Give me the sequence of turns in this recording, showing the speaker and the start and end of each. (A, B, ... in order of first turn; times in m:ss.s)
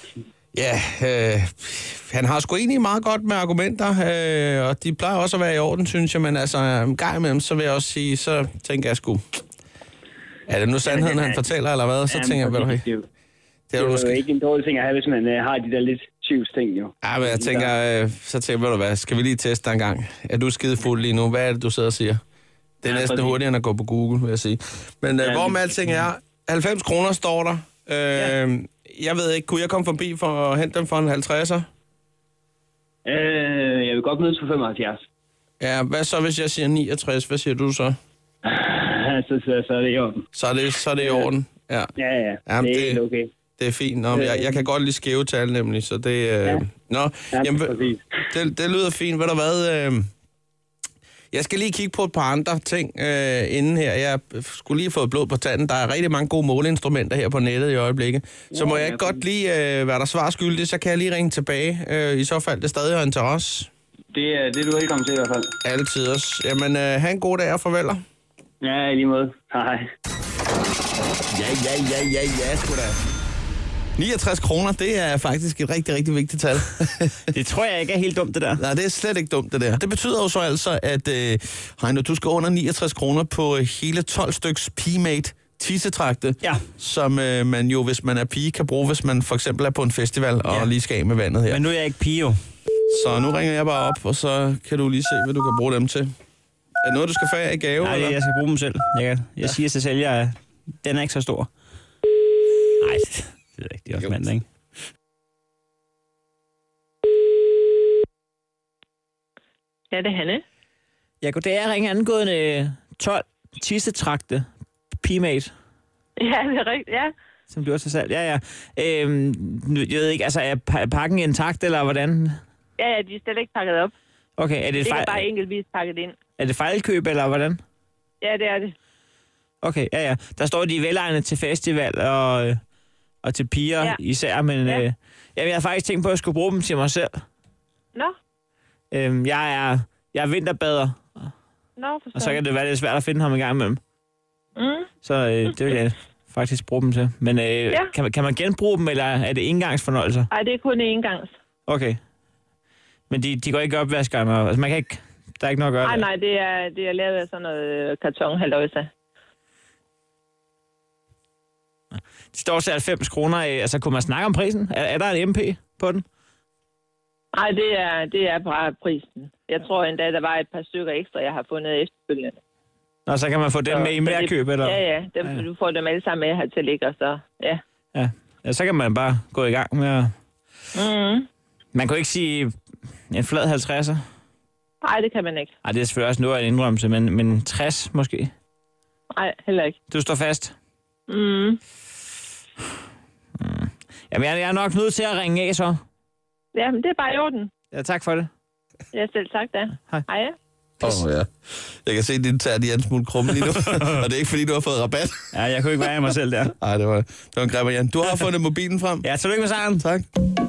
0:00.5-0:09.2 A
0:10.5-0:12.8 A
0:10.8-0:11.5 B
0:12.1-0:13.1 B
0:13.7-0:14.2 A
0:13.8-0:17.7 B
0:17.0-0:22.2 A
0:22.8-0:31.7 A
0:22.9-0:23.4 B
0:25.2-0:25.7 B
0:33.0-0:35.0 B
0:35.6-0:38.0 A
0:38.4-0:40.2 B
0:40.3-0:41.9 A
0:41.0-0:41.3 B
0:42.0-0:43.3 B
0:42.5-0:43.0 A
0:43.6-0:47.7 A
0:44.1-0:44.6 B
0:47.3-0:48.0 B
0:48.3-0:50.1 A
0:51.3-1:03.7 A
0:58.5-0:59.2 B
1:04.1-1:05.5 B
1:05.6-1:08.0 A
1:08.6-1:09.8 B
1:11.3-1:13.0 A
1:14.0-1:17.3 A
1:17.3-1:18.6 C
1:18.6-1:31.6 A
1:26.4-1:26.7 C
1:31.5-1:32.4 C
1:32.9-1:36.1 A
1:36.8-1:38.2 A
1:37.8-1:41.5 C
1:42.8-1:44.5 C
1:49.9-1:50.4 D
1:51.2-1:54.5 C
1:55.0-1:55.5 C
1:56.2-1:57.1 D
1:57.5-2:02.4 C
2:02.8-2:03.9 D
2:04.4-2:05.2 C
2:04.8-2:06.2 D
2:06.4-2:07.6 C
2:08.2-2:08.7 D
2:09.6-2:12.6 C
2:13.2-2:17.2 C
2:18.9-2:21.3 C
2:21.8-2:22.4 D
2:22.2-2:23.8 C
2:24.6-2:24.9 D
2:25.0-2:30.3 C
2:30.3-2:31.3 D
2:31.7-2:32.0 C
2:33.1-2:36.1 C
2:35.8-2:38.9 D
2:42.3-2:46.0 C
2:47.4-2:52.4 D
2:53.1-2:54.8 C
2:53.7-2:57.6 D
2:57.9-3:00.1 C
3:00.7-3:01.3 D
3:01.7-3:02.5 C
3:03.1-3:04.0 C
3:04.8-3:05.5 D
3:05.6-3:08.3 C
3:09.2-3:09.8 D
3:09.9-3:10.5 C
3:11.1-3:11.6 D
3:13.4-3:15.8 C
3:16.6-3:17.5 D
3:17.7-3:18.3 C
3:18.9-3:20.4 D
3:20.8-3:25.3 A
3:23.6-3:24.0 C
3:25.3-3:26.5 C
3:26.6-3:29.1 A
3:29.0-3:29.8 C
3:29.8-3:30.1 A